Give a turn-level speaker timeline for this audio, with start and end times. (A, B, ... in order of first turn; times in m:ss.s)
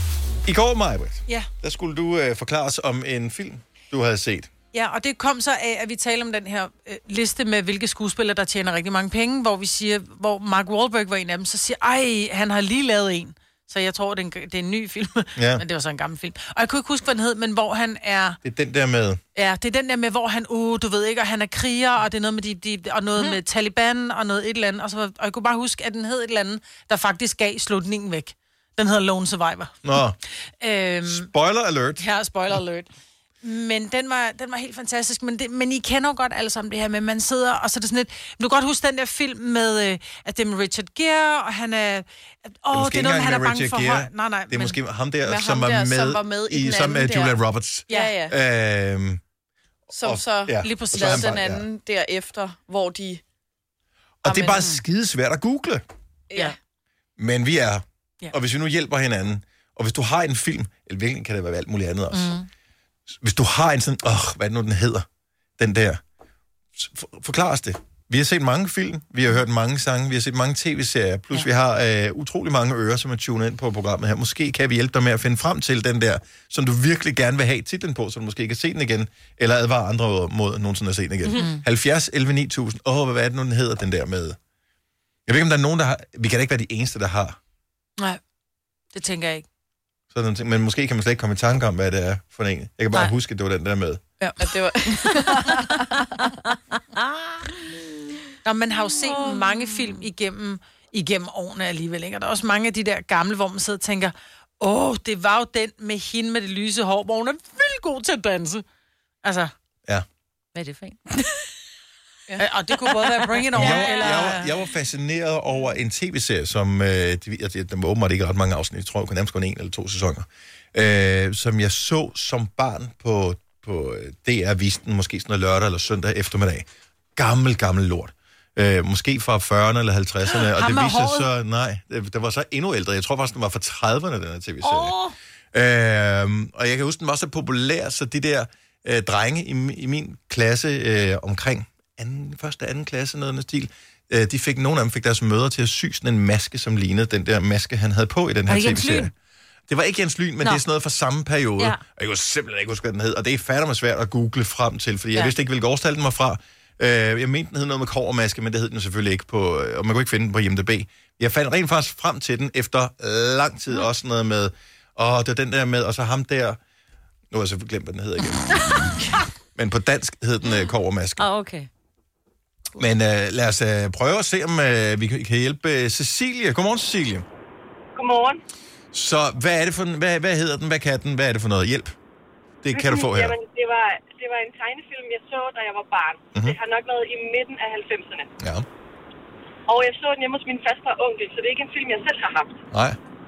0:00.4-0:04.5 A
0:04.7-0:18.4 B
0:15.4-0:15.6 A
0:18.4-0:19.2 A
0:19.3-0:29.9 B
0:29.8-0:30.2 A
0:30.6-0:31.3 B
0:31.0-0:32.0 A
0:32.0-0:32.9 B
0:33.4-0:44.8 B
0:42.7-0:49.2 A
0:45.2-0:47.4 C
0:47.9-0:48.2 B
0:47.9-0:48.3 C
0:49.9-0:53.2 C
0:50.0-0:51.6 A
0:50.6-0:51.4 B
0:54.2-0:55.8 A
0:54.2-0:54.7 C
0:56.3-0:56.5 C
0:57.2-1:02.3 A
1:02.1-1:02.5 B
1:03.2-1:05.0 A
1:05.6-1:06.0 A
1:06.8-1:24.4 A
1:25.3-1:27.4 A
1:28.9-1:29.4 B
1:30.1-1:34.0 A
1:34.2-1:35.8 B
1:34.4-1:35.8 C
1:38.4-1:48.6 B
1:49.2-1:49.5 B
1:50.5-1:51.2 D
1:52.3-1:53.4 C
1:52.4-1:54.5 B
1:53.5-2:15.0 A
2:10.4-2:11.3 B
2:14.6-2:15.1 D
2:15.5-2:29.1 A
2:28.5-2:29.1 D
2:29.7-2:46.6 A
2:47.3-2:51.3 A
2:51.2-2:51.7 D
2:52.8-2:57.2 A
2:57.9-2:58.4 E
2:58.9-3:01.9 A
3:02.6-3:03.4 A
3:02.7-3:08.3 E
3:08.4-3:08.6 A
3:09.7-3:12.6 E
3:12.7-3:13.0 A